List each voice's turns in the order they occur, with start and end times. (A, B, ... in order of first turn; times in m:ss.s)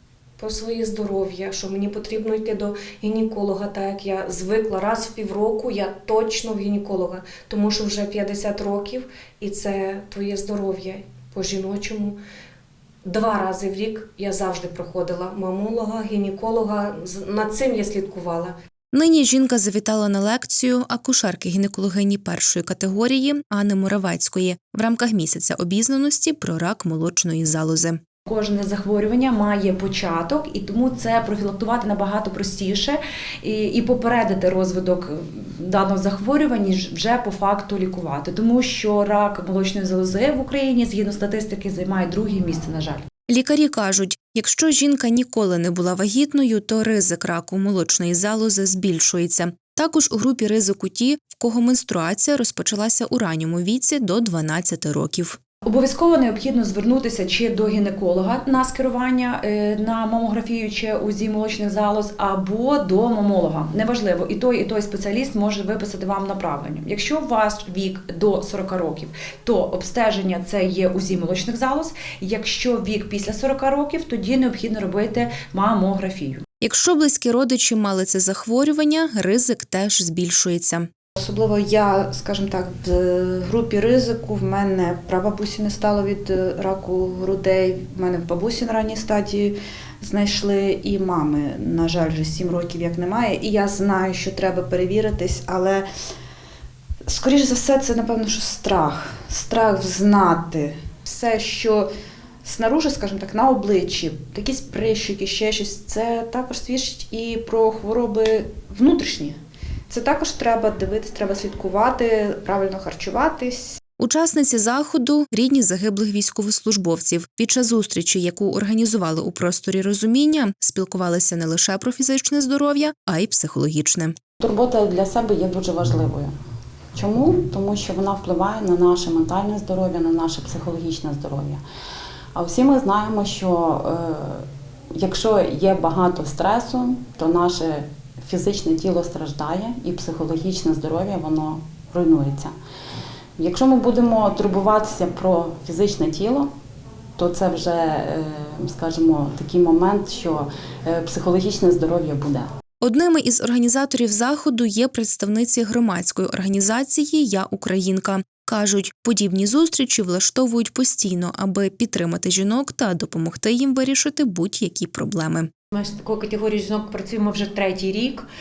0:00.4-0:12.2 A
0:13.0-0:18.6 A
0:18.9-0:28.0 B
0:28.3-0:43.0 C
0:43.3-0:55.4 B
0:55.6-1:16.4 C
1:16.6-1:20.9 B
1:21.2-1:35.8 D
1:37.1-1:41.9 D
1:42.4-1:49.4 D
1:49.9-1:53.8 D
1:54.0-2:04.2 B
2:04.4-2:06.3 E
2:06.9-2:11.6 E
2:12.3-2:22.6 E
2:23.4-2:26.5 E
2:27.2-2:32.5 E
2:32.8-2:45.5 B
2:45.7-2:48.2 F